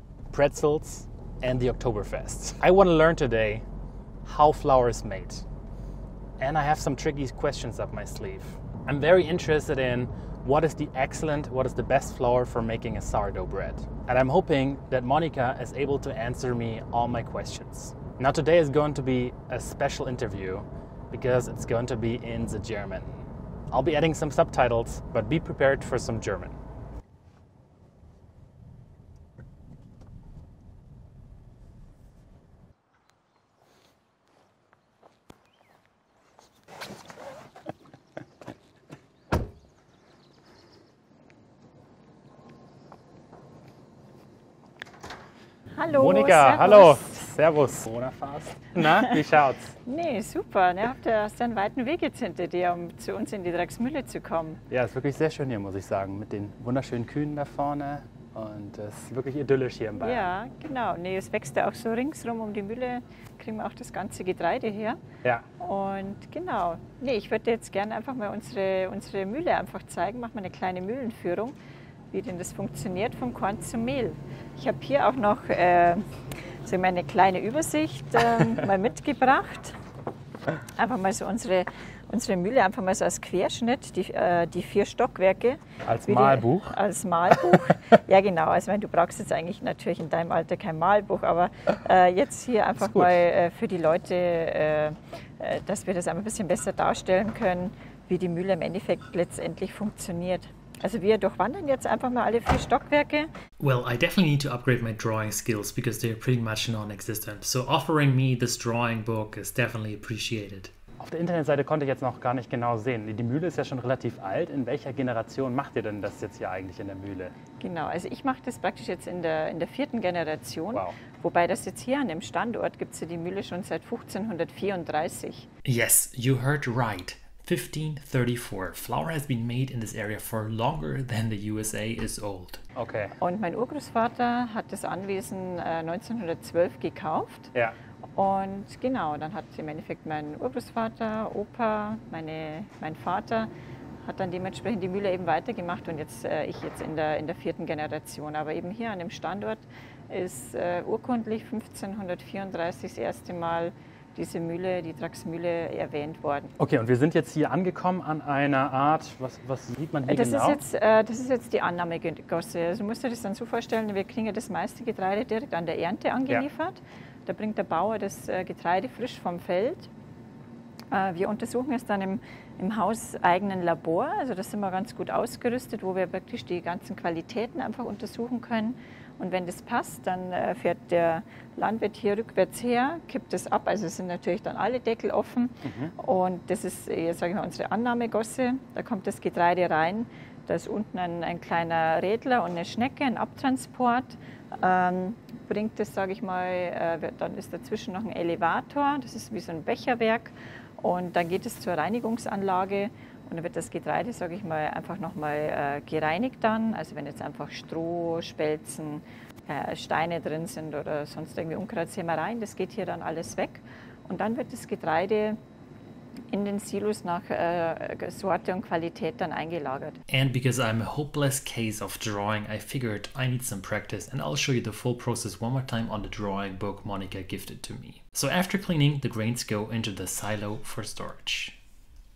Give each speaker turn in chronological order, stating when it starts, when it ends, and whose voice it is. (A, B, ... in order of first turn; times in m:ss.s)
0:00.3-0:03.6 A
0:04.2-0:05.4 A
0:06.4-0:23.1 A
0:23.7-0:26.6 A
0:45.7-0:47.3 B
0:45.9-0:49.7 A
0:49.8-0:54.6 B
0:54.7-1:00.3 A
1:00.0-1:05.0 B
1:05.6-1:11.6 B
1:12.1-1:16.1 B
1:16.6-1:19.8 B
1:20.8-1:43.3 B
1:25.8-1:26.8 A
1:32.8-1:33.2 A
1:43.6-1:50.7 C
1:51.0-1:57.4 A
1:57.6-2:05.5 B
2:05.6-2:12.6 C
2:12.8-2:13.2 A
2:13.2-2:17.5 B
2:18.2-2:23.5 B
2:24.0-2:36.5 B
2:36.6-2:40.6 A
2:40.1-2:49.9 B
2:50.9-3:35.4 B
3:05.6-3:05.9 A
3:36.3-3:40.0 B
3:40.1-3:51.6 C